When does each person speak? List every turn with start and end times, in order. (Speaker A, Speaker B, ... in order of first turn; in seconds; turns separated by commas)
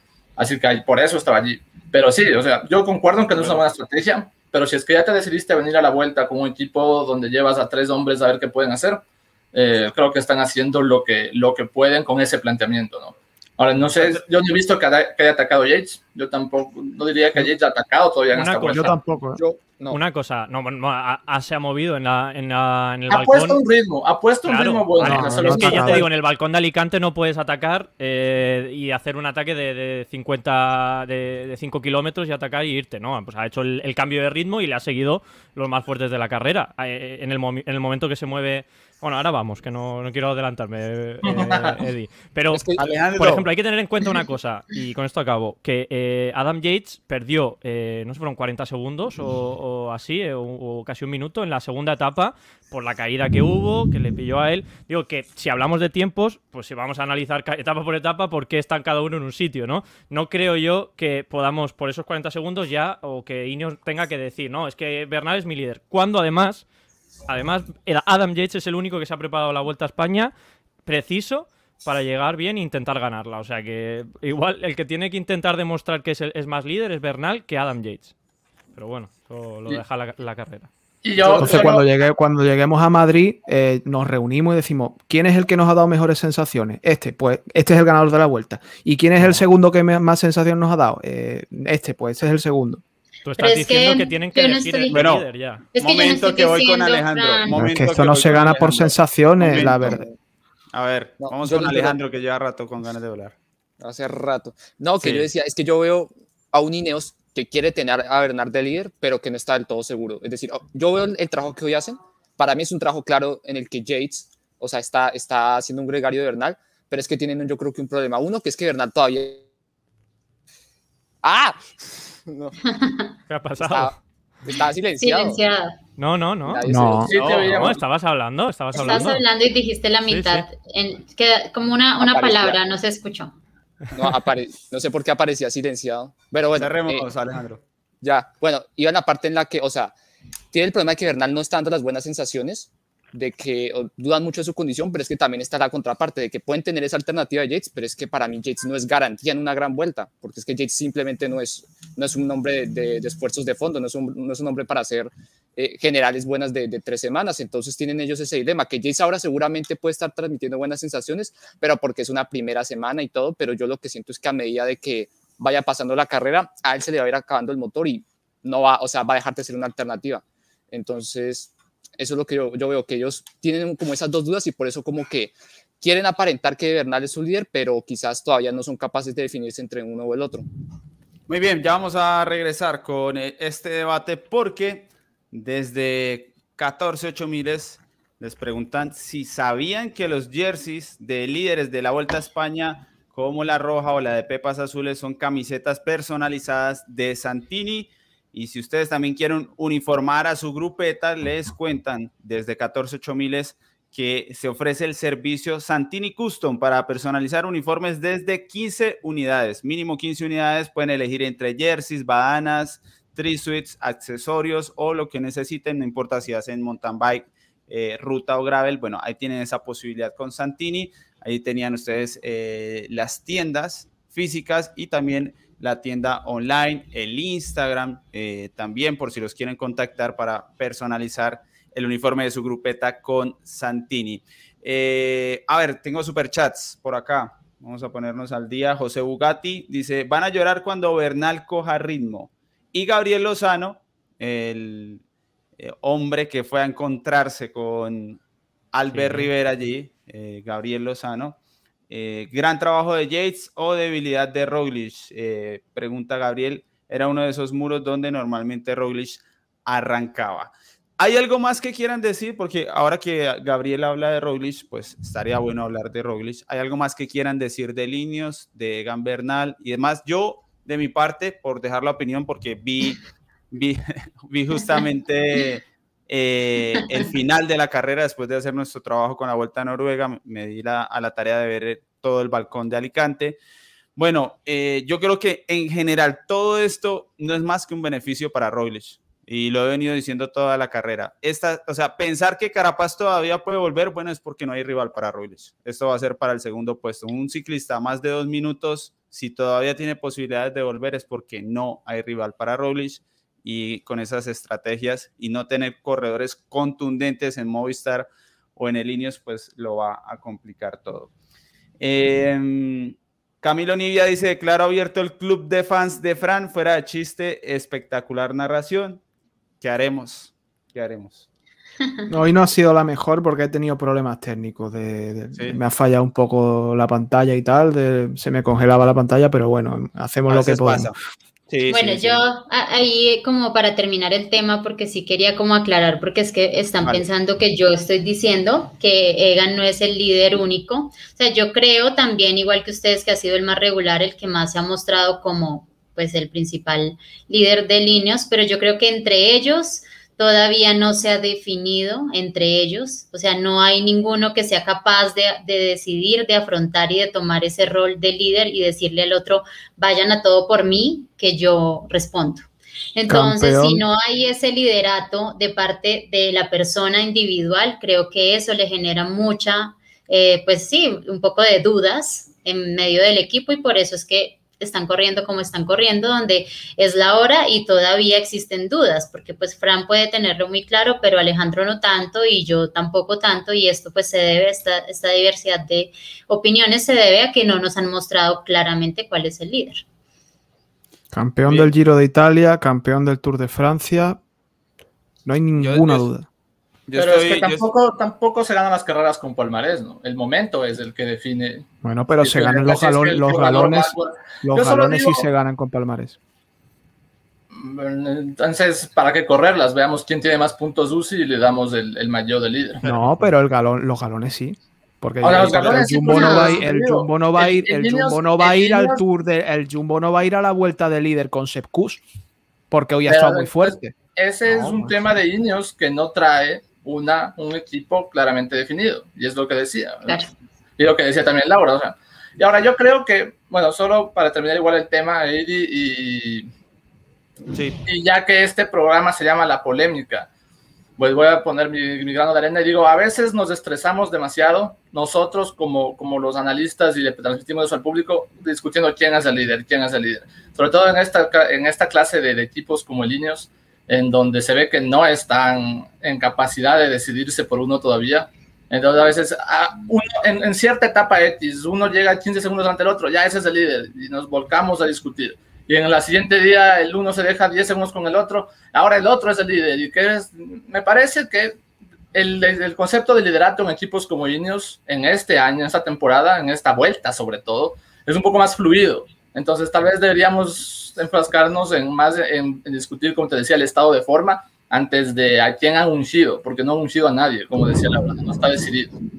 Speaker A: 0.4-19.0, Speaker B: 18.3-19.0, Speaker C: 18.6-19.4, Speaker D: 19.4-20.0, Speaker B: 19.9-23.6, Speaker A: 23.1-26.1, Speaker B: 24.4-66.7, Speaker C: 25.0-26.1, Speaker A: 41.3-41.8, Speaker D: 42.5-42.8, Speaker E: 42.8-43.5, Speaker B: 67.3-70.3, Speaker B: 70.8-78.1, Speaker B: 78.7-80.7, Speaker A: 81.0-81.9, Speaker C: 81.2-92.8, Speaker B: 81.3-81.7, Speaker B: 93.2-95.7, Speaker F: 93.4-95.0, Speaker E: 94.9-100.0, Speaker F: 95.7-97.7, Speaker C: 97.5-100.1, Speaker D: 99.9-100.1, Speaker E: 100.7-103.3, Speaker D: 101.2-102.0, Speaker D: 103.8-119.4, Speaker E: 105.0-105.3, Speaker D: 121.2-122.6, Speaker F: 122.7-123.1, Speaker B: 123.3-124.0, Speaker D: 123.6-123.9, Speaker D: 124.5-125.4, Speaker F: 125.0-125.8, Speaker B: 126.0-126.6, Speaker D: 126.5-127.1, Speaker C: 126.7-127.1, Speaker A: 127.1-127.8, Speaker E: 127.1-127.8, Speaker B: 127.2-129.2, Speaker F: 128.7-133.3, Speaker B: 130.1-130.5, Speaker D: 132.0-132.6, Speaker D: 134.0-137.1, Speaker E: 136.6-137.6, Speaker D: 138.0-139.9, Speaker D: 140.5-180.4, Speaker E: 181.3-245.0, Speaker E: 245.6-248.2, Speaker E: 248.7-273.0, Speaker B: 248.9-249.3, Speaker E: 273.5-283.4, Speaker E: 284.0-311.1, Speaker E: 311.8-319.0, Speaker E: 319.6-321.3, Speaker C: 322.1-330.9, Speaker E: 330.3-332.2, Speaker F: 331.7-389.8, Speaker C: 363.1-363.9, Speaker C: 391.1-394.2, Speaker E: 391.4-391.7, Speaker C: 395.2-396.3, Speaker E: 395.6-396.1, Speaker E: 396.9-397.7, Speaker A: 397.0-401.7, Speaker C: 401.8-406.2, Speaker A: 402.2-405.3, Speaker A: 407.5-412.8, Speaker E: 412.8-413.1, Speaker C: 412.8-422.0, Speaker A: 415.2-419.0, Speaker E: 415.4-415.7, Speaker F: 416.1-416.7, Speaker C: 422.7-425.0, Speaker A: 423.1-430.2, Speaker A: 430.8-436.5, Speaker E: 437.5-437.8, Speaker A: 437.9-440.3, Speaker A: 441.0-471.6, Speaker A: 472.1-488.9